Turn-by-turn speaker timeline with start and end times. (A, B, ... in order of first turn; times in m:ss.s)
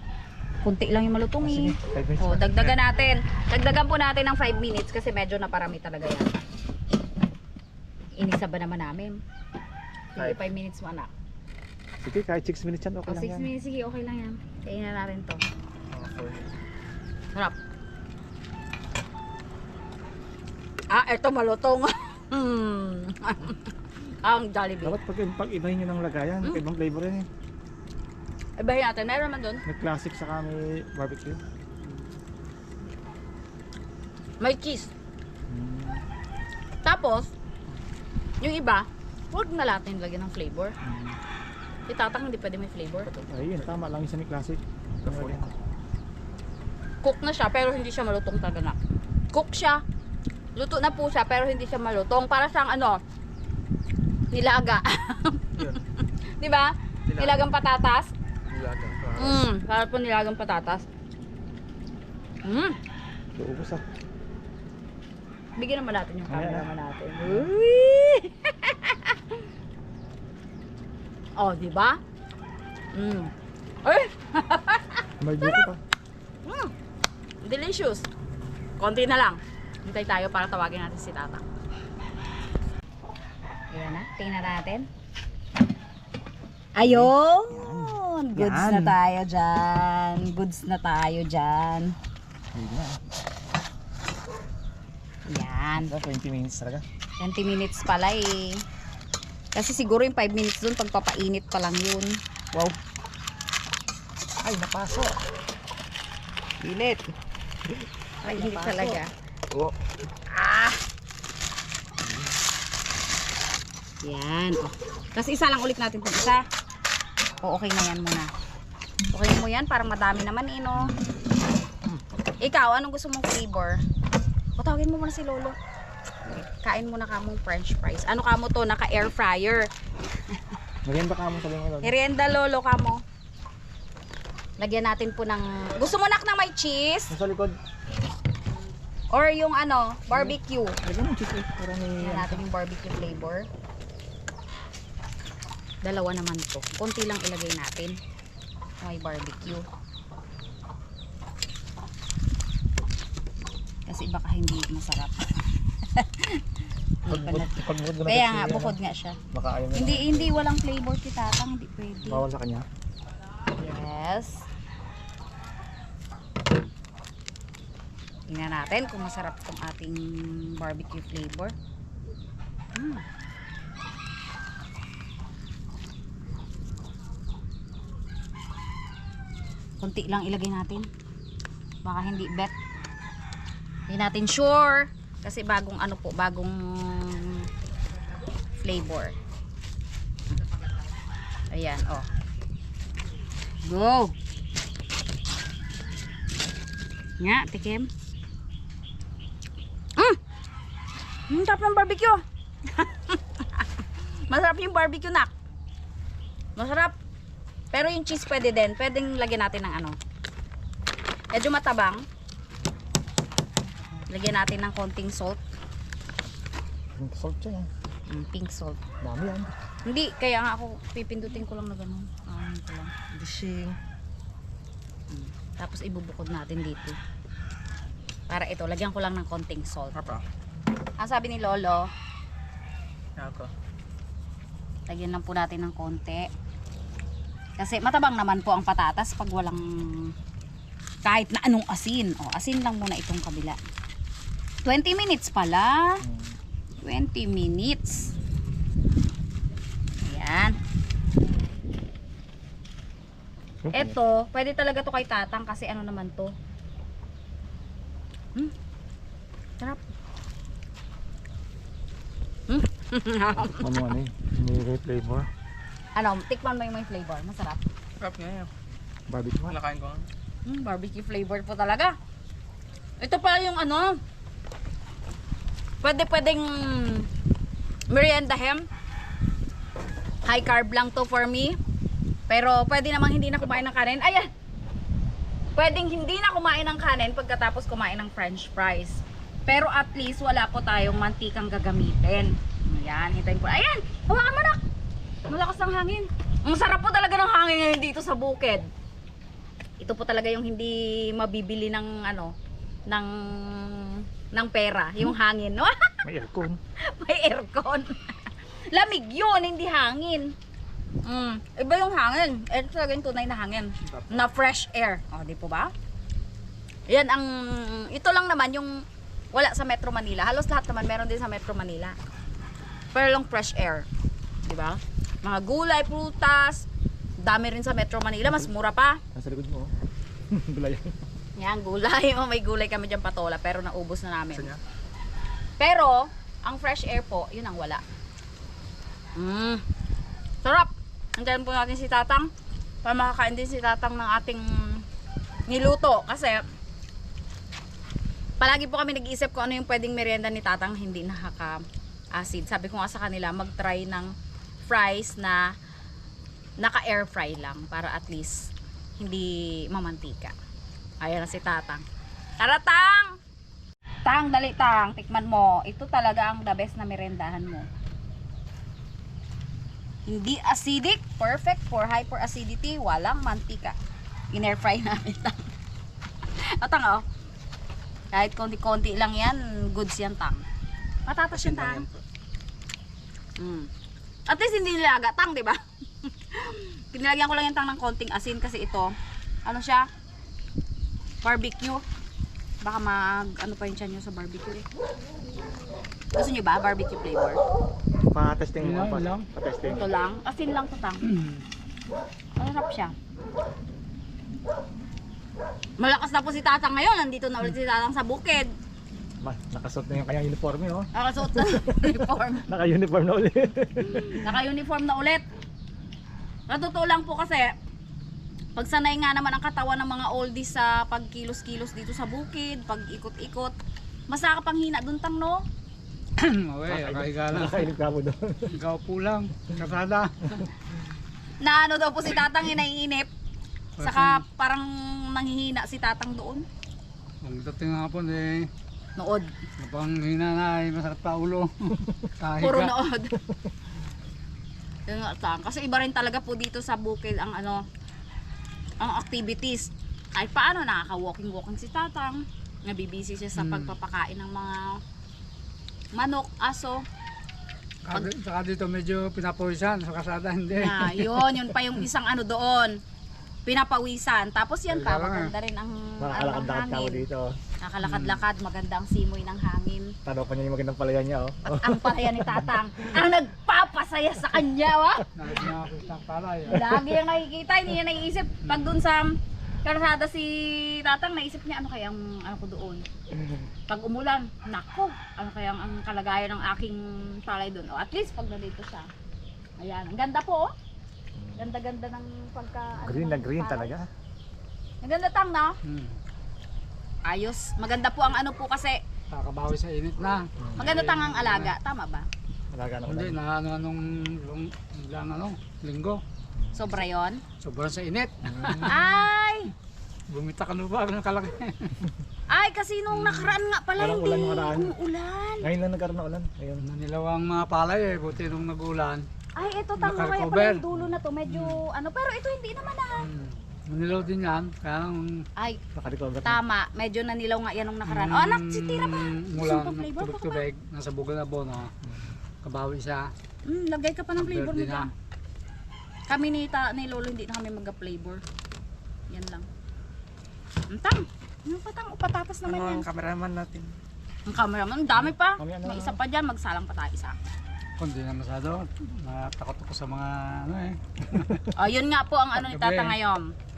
0:00.6-0:06.3 A
0:01.4-0:02.8 B
0:08.2-0:09.2 A
0:10.1-0:11.1 A
0:12.0-0:13.5 B
0:13.1-0:15.4 A
0:15.9-0:16.5 C
0:20.9-0:25.0 A
0:24.8-0:27.2 B
0:28.6-0:29.6 A
0:29.6-0:31.4 B
0:34.4-0:34.9 A
0:35.5-0:36.0 B
0:36.8-0:37.3 A
0:38.4-0:40.7 A
0:40.8-0:41.2 B
0:41.9-0:43.1 A
0:43.3-0:45.5 B
0:45.0-0:45.5 C
0:47.0-0:48.8 A
0:49.3-0:49.8 A
0:50.5-0:53.0 A
0:54.3-0:58.1 A
0:57.1-0:57.4 C
0:58.5-0:59.5 C
0:59.2-1:00.8 A
1:02.4-1:02.8 A
1:03.3-1:03.8 B
1:05.6-1:09.4 A
1:06.3-1:06.7 B
1:07.2-1:07.5 B
1:11.4-1:12.0 A
1:12.9-1:13.3 A
1:13.8-1:15.7 A
1:15.2-1:15.8 B
1:16.4-1:16.7 A
1:17.4-1:18.0 A
1:18.8-1:21.4 A
1:23.7-1:24.9 A
1:26.8-1:31.9 A
1:26.8-1:28.0 B
1:28.4-1:29.0 C
1:32.5-1:33.0 B
1:35.2-1:35.9 A
1:35.8-1:36.8 B
1:37.2-1:38.6 A
1:39.5-1:42.2 A
1:44.4-1:45.2 B
1:46.6-1:47.1 C
1:48.2-1:49.1 A
1:48.4-1:48.9 C
1:50.3-1:50.8 A
1:54.0-1:56.4 A
1:57.4-1:58.3 A
1:59.1-2:01.0 A
2:00.8-2:01.1 B
2:02.4-2:03.8 A
2:04.6-2:05.5 A
2:06.4-2:09.7 A
2:10.8-2:11.9 B
2:11.8-2:13.0 A
2:14.6-2:17.1 A
2:17.1-2:17.5 B
2:19.1-2:20.8 A
2:20.1-2:22.4 B
2:22.0-2:23.4 A
2:25.8-2:28.0 A
2:28.8-2:29.6 A
2:33.9-2:35.2 A
2:35.8-2:36.4 A
2:37.0-2:37.5 A
2:37.0-2:38.8 B
2:38.0-2:39.2 A
2:39.3-2:40.5 B
2:39.7-2:42.2 A
2:42.0-2:42.6 B
2:43.6-2:44.4 A
2:48.3-2:51.5 A
2:52.7-2:53.0 A
2:59.8-3:00.9 A
3:01.8-3:02.5 A
3:03.9-3:07.5 A
3:08.6-3:09.2 A
3:11.5-3:12.1 A
3:13.6-3:14.1 A
3:17.2-3:17.9 A
3:21.3-3:25.3 A
3:26.6-3:26.9 A
3:27.7-3:30.0 A
3:31.3-3:32.0 A
3:34.1-3:35.4 A
3:37.0-3:37.7 B
3:38.1-3:38.8 A
3:39.0-3:39.5 B
3:39.8-3:42.9 A
3:43.1-3:43.8 C
3:45.1-3:47.0 A
3:48.3-3:50.1 A
3:49.9-3:50.2 C
3:51.0-3:51.9 A
3:53.2-3:53.5 C
3:54.9-3:56.3 A
3:57.6-4:00.1 A
4:01.0-4:03.6 A
4:04.6-4:06.0 A
4:06.0-4:06.4 B
4:06.8-4:08.1 A
4:10.0-4:10.5 A
4:13.6-4:14.0 B
4:13.7-4:16.3 A
4:22.5-4:23.7 A
4:23.3-4:25.3 B
4:25.9-4:27.6 A
4:28.0-4:28.5 C
4:29.1-4:29.6 B
4:29.5-4:30.1 C
4:30.4-4:31.9 A
4:33.0-4:34.0 A
4:35.8-4:37.1 A
4:37.9-4:38.6 A
4:40.2-4:41.6 A
4:42.3-4:44.3 A
4:45.6-4:54.6 A
4:55.3-4:58.7 A
4:59.8-5:02.3 A
5:02.9-5:06.0 A
5:06.0-5:06.6 B
5:06.8-5:10.3 A
5:11.0-5:15.7 A
5:16.9-5:21.9 A
5:22.9-5:23.8 A
5:24.4-5:26.6 A
5:27.2-5:29.0 A
5:29.1-5:29.7 B
5:30.3-5:31.0 B
5:31.4-5:34.5 A
5:35.6-5:37.8 A
5:39.2-5:39.6 A
5:40.4-5:42.3 A
5:42.8-5:44.8 A
5:45.5-5:46.4 A
5:48.4-5:51.6 A
5:52.1-5:54.1 A
5:54.6-5:55.5 A
5:56.6-6:00.4 A
6:01.0-6:01.8 A
6:02.4-6:03.1 A
6:04.0-6:07.6 A
6:10.0-6:13.8 A
6:14.3-6:15.4 A
6:16.4-6:17.0 A
6:18.1-6:20.4 A
6:21.0-6:21.9 A
6:21.3-6:22.0 B
6:23.4-6:23.7 A
6:24.3-6:28.9 A
6:29.4-6:29.9 A
6:31.2-6:31.8 A
6:32.6-6:34.6 A
6:36.1-6:37.4 A
6:38.1-6:39.9 B
6:38.6-6:39.2 D
6:39.7-6:41.0 A
6:41.0-6:41.4 D
6:42.4-6:42.9 A
6:45.8-6:48.5 A
6:49.2-6:54.3 B
6:50.9-6:52.5 A
6:53.8-6:55.2 A
6:56.5-6:57.5 A
6:58.5-7:03.5 A
7:04.1-7:05.4 A
7:06.2-7:07.7 D
7:06.7-7:08.6 B
7:08.5-7:10.5 D
7:11.4-7:13.1 A
7:13.8-7:14.2 D
7:13.8-7:16.4 A
7:17.2-7:18.5 D
7:19.0-7:19.3 A
7:19.6-7:22.8 D
7:22.4-7:23.2 A
7:24.9-7:27.6 A
7:28.8-7:34.8 A
7:33.4-7:33.8 D
7:35.9-7:36.8 A
7:37.8-7:41.6 D
7:40.6-7:42.8 A
7:43.4-7:47.0 A
7:44.7-7:45.3 D
7:46.0-7:47.4 B
7:47.6-7:49.9 A
7:47.8-7:48.2 D
7:50.0-7:52.7 B
7:51.5-7:55.1 A
7:55.1-7:56.8 D
7:56.5-8:02.8 A
7:58.4-7:58.8 D
8:03.7-8:08.9 A
8:09.6-8:10.5 A
8:11.2-8:11.5 B
8:11.4-8:13.7 A
8:12.8-8:13.9 B
8:14.8-8:15.6 A
8:15.6-8:16.0 D
8:17.0-8:18.8 A
8:19.1-8:21.5 D
8:20.4-8:20.7 B
8:20.6-8:22.1 A
8:22.5-8:23.2 B
8:22.9-8:26.0 D
8:26.4-8:26.8 B
8:26.5-8:27.2 A
8:27.4-8:28.8 D
8:28.2-8:28.8 B
8:28.6-8:29.5 A
8:30.1-8:31.8 D
8:32.3-8:35.5 A
8:32.9-8:33.4 D
8:33.8-8:34.7 B
8:35.4-8:36.6 B
8:36.6-8:39.1 D
8:39.3-8:43.1 A
8:39.8-8:41.6 D
8:43.0-8:45.2 D
8:45.4-8:45.6 A
8:45.7-8:46.4 B
8:46.2-8:50.4 A
8:47.9-8:51.7 D
8:52.4-8:53.1 D
8:53.4-8:54.9 A
8:54.2-8:54.9 D
8:56.1-8:58.2 A
8:59.1-8:59.5 A
9:00.7-9:02.8 A
9:02.4-9:03.8 C
9:04.2-9:07.2 A
9:05.3-9:06.0 B
9:07.8-9:11.5 D
9:11.5-9:13.3 A
9:12.3-9:13.0 D